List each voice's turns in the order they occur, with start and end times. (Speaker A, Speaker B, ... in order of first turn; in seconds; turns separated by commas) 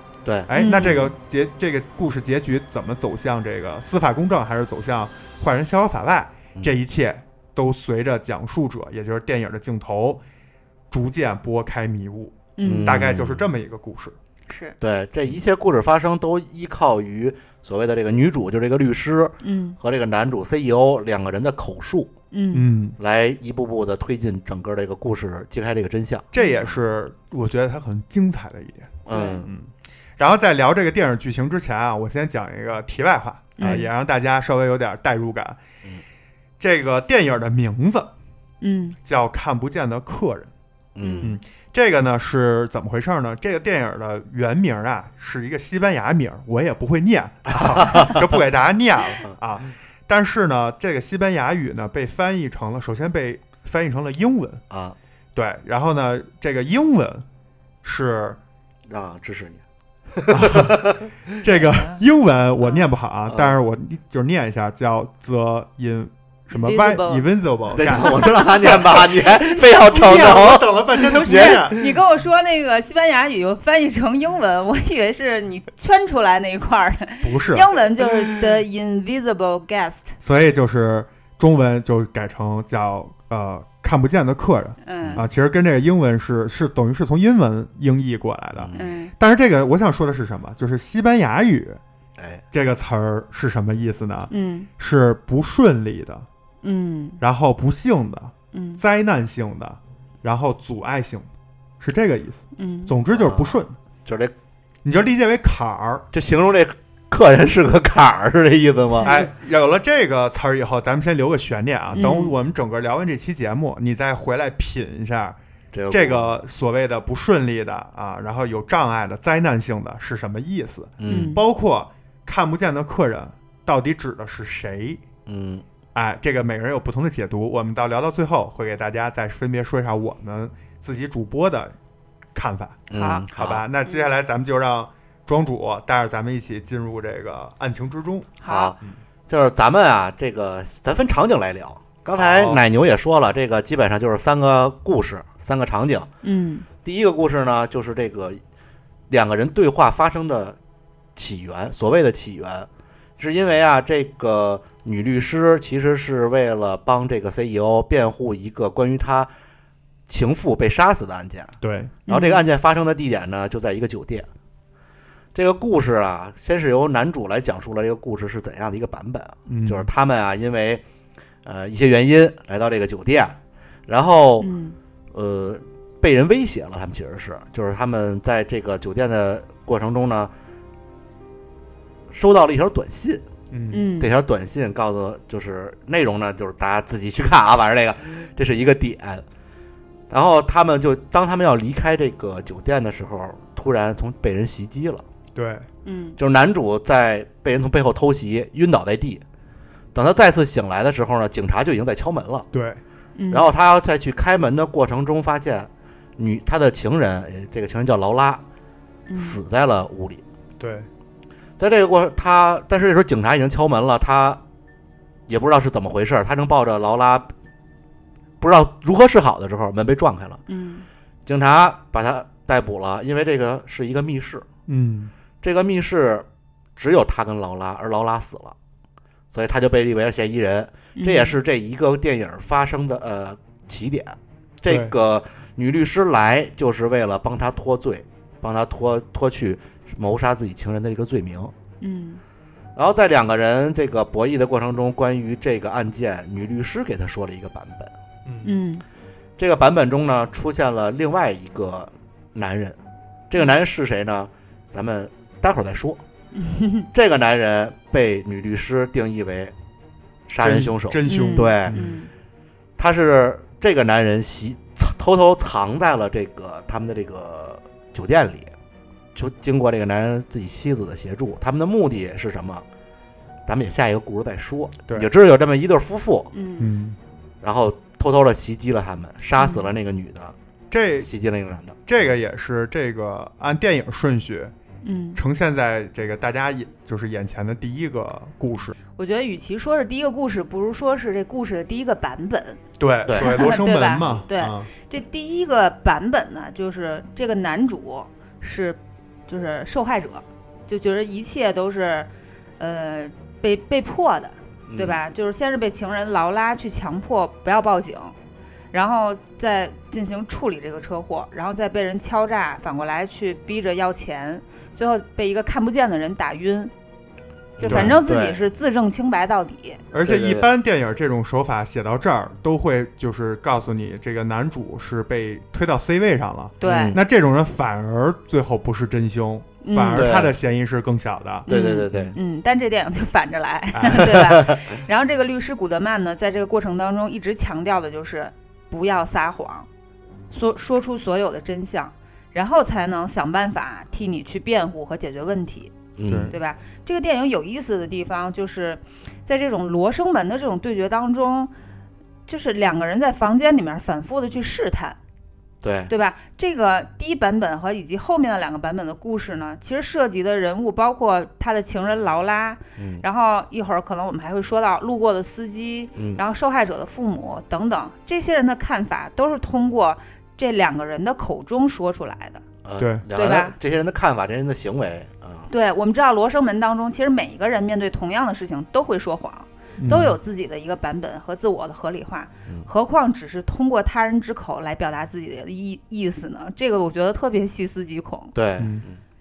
Speaker A: 0.2-0.5, Speaker B: 0.5-10.2, Speaker C: 0.6-1.1, Speaker B: 10.9-14.2, Speaker C: 12.6-13.0, Speaker A: 12.6-13.4, Speaker C: 14.5-14.8, Speaker A: 14.8-22.1, Speaker C: 19.4-19.8, Speaker C: 22.3-22.6, Speaker B: 22.5-23.0, Speaker A: 23.0-26.3, Speaker C: 26.3-26.7, Speaker B: 26.3-35.6, Speaker A: 29.1-29.5, Speaker C: 29.1-29.4, Speaker C: 33.6-33.9, Speaker A: 33.6-33.9, Speaker B: 36.6-38.1, Speaker C: 38.6-39.0, Speaker B: 39.0-40.5, Speaker A: 41.0-41.4, Speaker C: 41.0-41.3, Speaker B: 41.2-54.6, Speaker A: 47.7-48.1, Speaker A: 54.7-55.0, Speaker B: 55.4-57.2, Speaker B: 57.8-58.4, Speaker A: 58.9-61.1, Speaker B: 60.3-68.8, Speaker C: 61.5-62.0, Speaker C: 62.6-62.9, Speaker A: 63.3-63.6, Speaker C: 66.5-67.3, Speaker A: 67.7-71.8, Speaker C: 68.0-68.7, Speaker C: 69.2-69.5, Speaker B: 69.7-71.8, Speaker C: 71.1-80.2, Speaker B: 77.2-77.7, Speaker B: 80.2-91.8, Speaker C: 84.8-85.2, Speaker A: 85.0-85.3, Speaker C: 88.7-89.1, Speaker B: 92.5-96.3, Speaker C: 94.3-94.7, Speaker C: 96.6-97.2, Speaker B: 97.2-101.3, Speaker C: 98.5-98.8, Speaker B: 101.8-103.8, Speaker C: 102.6-102.9, Speaker A: 103.1-104.3, Speaker B: 104.8-106.1, Speaker A: 106.1-109.1, Speaker C: 109.0-109.3, Speaker B: 109.0-115.4, Speaker C: 112.0-112.3, Speaker A: 115.7-116.4, Speaker B: 115.9-125.0, Speaker A: 121.0-121.3, Speaker C: 121.1-121.4, Speaker A: 125.3-125.7, Speaker B: 126.0-131.7, Speaker B: 132.3-138.3, Speaker A: 132.9-133.6, Speaker C: 132.9-133.2, Speaker C: 138.4-138.7, Speaker A: 138.4-146.1, Speaker B: 142.2-142.6, Speaker C: 146.2-146.7, Speaker A: 146.8-148.4, Speaker A: 149.1-150.6, Speaker A: 151.2-159.3, Speaker A: 160.1-161.6, Speaker B: 161.6-162.0, Speaker C: 162.1-162.4, Speaker A: 162.1-164.3, Speaker A: 165.3-170.8, Speaker B: 169.5-169.9, Speaker A: 171.4-174.5, Speaker C: 174.4-174.8, Speaker A: 175.1-180.3, Speaker A: 182.1-183.2, Speaker B: 183.5-183.9, Speaker C: 183.7-184.1, Speaker A: 184.0-189.2, Speaker A: 190.1-195.1, Speaker B: 195.3-195.7, Speaker C: 195.8-196.2, Speaker A: 196.2-199.2, Speaker A: 199.9-202.5, Speaker B: 202.5-202.8, Speaker C: 203.2-203.5, Speaker A: 203.3-208.4, Speaker C: 209.1-209.4, Speaker A: 209.2-210.2, Speaker B: 210.6-210.9, Speaker A: 211.6-214.4, Speaker A: 215.3-217.3, Speaker A: 218.4-220.4, Speaker C: 220.5-220.9, Speaker A: 221.2-224.5, Speaker B: 224.7-225.1, Speaker A: 225.4-228.6, Speaker A: 229.3-241.5, Speaker C: 231.0-231.3, Speaker B: 234.7-234.9, Speaker C: 241.8-242.2, Speaker A: 242.8-247.9, Speaker C: 248.4-248.8, Speaker A: 249.4-252.8, Speaker A: 253.3-256.0, Speaker C: 256.4-256.9, Speaker A: 256.9-259.6, Speaker A: 260.3-261.8, Speaker B: 260.4-261.9, Speaker C: 261.1-262.1, Speaker A: 262.8-268.5, Speaker A: 269.1-272.6, Speaker A: 273.5-276.3, Speaker C: 276.3-276.7, Speaker B: 276.6-277.0, Speaker A: 277.4-280.4, Speaker C: 279.4-279.7, Speaker B: 280.7-281.1, Speaker A: 281.0-281.8, Speaker B: 281.9-284.5, Speaker C: 284.8-285.2, Speaker B: 285.1-288.7, Speaker C: 289.0-292.6, Speaker B: 292.8-294.7, Speaker A: 293.1-293.4, Speaker C: 293.1-308.1, Speaker A: 304.7-305.0, Speaker C: 308.7-316.7, Speaker A: 317.6-318.4, Speaker C: 317.6-319.8, Speaker B: 317.6-317.9, Speaker B: 319.9-331.5, Speaker A: 320.0-320.5, Speaker C: 326.6-327.0, Speaker A: 326.6-327.0, Speaker C: 329.6-330.1, Speaker A: 329.9-330.4, Speaker A: 331.5-332.1, Speaker C: 331.5-339.7, Speaker B: 333.7-334.2, Speaker C: 340.3-345.8, Speaker A: 346.0-346.4, Speaker B: 346.1-346.3, Speaker C: 346.3-351.5, Speaker C: 352.3-355.0, Speaker A: 355.6-355.9, Speaker C: 355.9-372.4, Speaker A: 362.8-363.0, Speaker A: 366.0-366.2, Speaker A: 372.6-375.5, Speaker B: 372.8-373.1, Speaker C: 373.1-373.6, Speaker C: 375.5-388.3, Speaker B: 379.8-380.2, Speaker A: 388.3-389.0, Speaker B: 388.6-388.8